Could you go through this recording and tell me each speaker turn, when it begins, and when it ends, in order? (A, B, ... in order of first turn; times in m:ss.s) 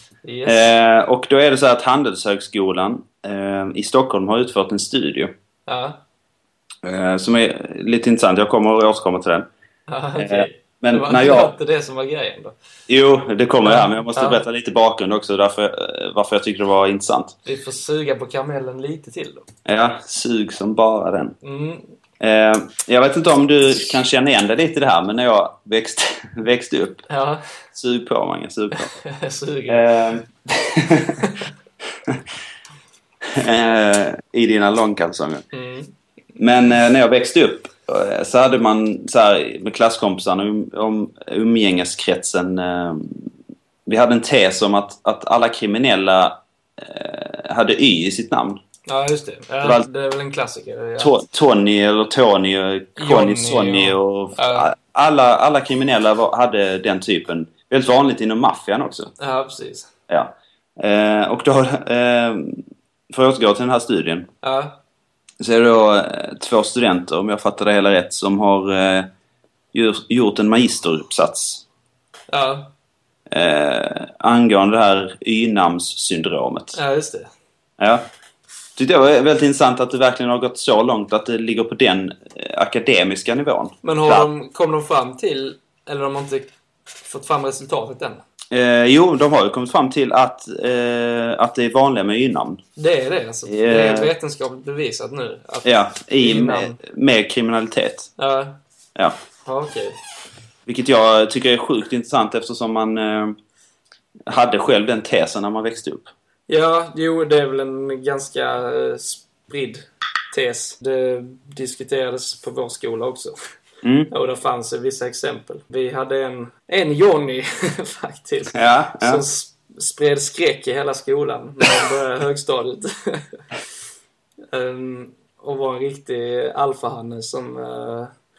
0:00.2-0:00.7 A
0:00.4-0:05.3 B
0:05.7-0:06.0 A
0:06.8-0:09.5 B
0:09.9-0:12.5 A
0:10.2-0:11.5 B
0:12.9-0:17.4 B
0:13.6-0:14.4 A
0:17.4-0:19.4 A
0:19.6-0:21.4 B
0:21.4-0:21.9 A
0:22.2-0:27.1 B
0:27.1-0:27.4 A
0:27.7-0:28.9 B
0:28.9-0:29.8 A
0:29.7-0:31.2 B
0:33.3-0:35.4 B
0:35.5-0:35.9 A
0:36.4-0:43.3 B
0:43.8-0:48.6 B
0:48.9-0:51.2 A
0:51.0-0:59.1 B
0:53.0-0:54.7 A
0:59.2-0:59.9 A
1:00.1-1:04.3 B
1:04.4-1:04.8 A
1:05.4-1:09.1 B
1:09.7-1:11.6 B
1:12.3-1:12.7 A
1:13.3-1:16.8 B
1:16.7-1:17.3 A
1:17.8-1:18.0 B
1:18.8-1:24.3 B
1:23.8-1:28.2 A
1:28.5-1:32.6 B
1:32.8-1:36.8 A
1:33.5-1:34.1 B
1:35.6-1:38.1 B
1:38.2-1:38.6 A
1:39.4-1:40.0 A
1:40.7-1:43.4 B
1:44.3-1:46.1 B
1:46.5-1:53.3 A
1:53.8-1:54.1 B
1:54.1-2:03.2 A
1:58.5-1:59.2 B
2:04.5-2:08.1 A